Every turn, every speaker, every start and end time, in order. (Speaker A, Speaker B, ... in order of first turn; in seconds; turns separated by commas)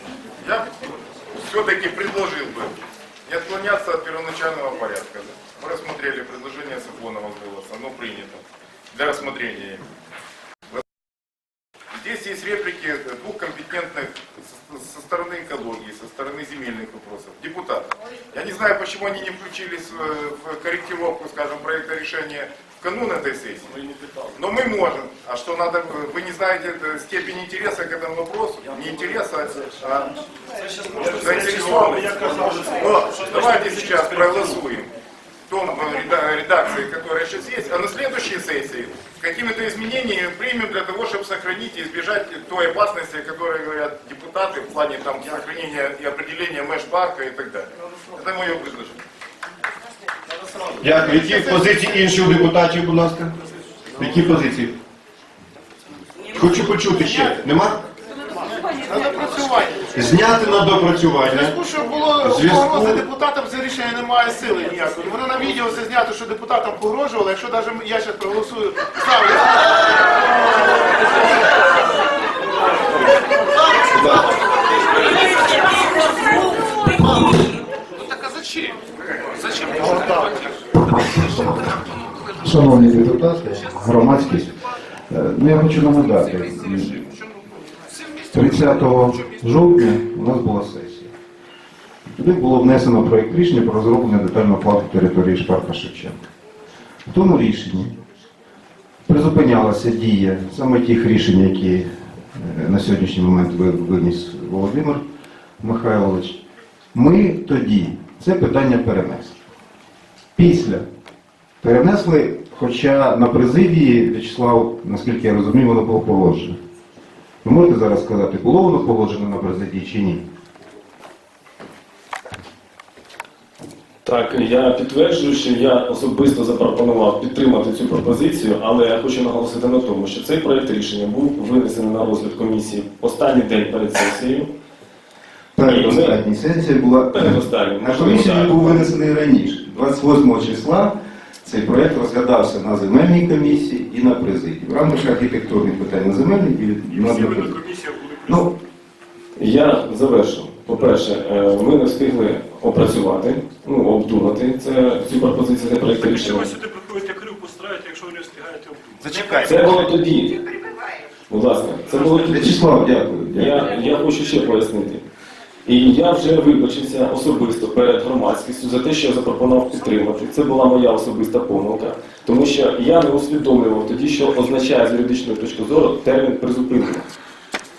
Speaker A: 0.4-0.7, Speaker A: 1.4-2.8, Speaker A: 3.3-8.4, Speaker A: 8.9-9.8, Speaker A: 11.9-23.7, Speaker A: 24.4-30.2, Speaker B: 30.8-34.5, Speaker A: 30.9-34.9, Speaker A: 35.5-49.0, Speaker C: 50.8-53.3, Speaker C: 54.0-54.8, Speaker C: 56.3-57.8, Speaker D: 56.5-57.3, Speaker D: 58.6-59.9, Speaker C: 59.9-61.6, Speaker D: 61.3-69.7, Speaker C: 62.2-63.1, Speaker C: 73.9-74.2, Speaker E: 79.7-80.2, Speaker E: 80.9-81.7, Speaker E: 82.4-84.5, Speaker E: 85.1-87.0, Speaker E: 88.3-91.1, Speaker E: 92.1-96.2, Speaker E: 97.1-97.9, Speaker E: 99.1-105.0, Speaker E: 105.6-106.4, Speaker E: 106.9-109.3, Speaker E: 110.3-110.8, Speaker E: 111.6-116.5, Speaker E: 117.4-120.2, Speaker F: 124.0-134.5, Speaker E: 135.6-147.6, Speaker F: 135.6-136.2, Speaker F: 137.1-138.9, Speaker B: 146.9-148.4, Speaker E: 148.2-148.6, Speaker F: 149.3-156.6, Speaker B: 156.3-159.0, Speaker E: 159.0-159.7, Speaker F: 159.3-160.4, Speaker F: 161.3-162.6, Speaker E: 162.3-163.7, Speaker F: 163.3-165.0, Speaker F: 165.6-177.1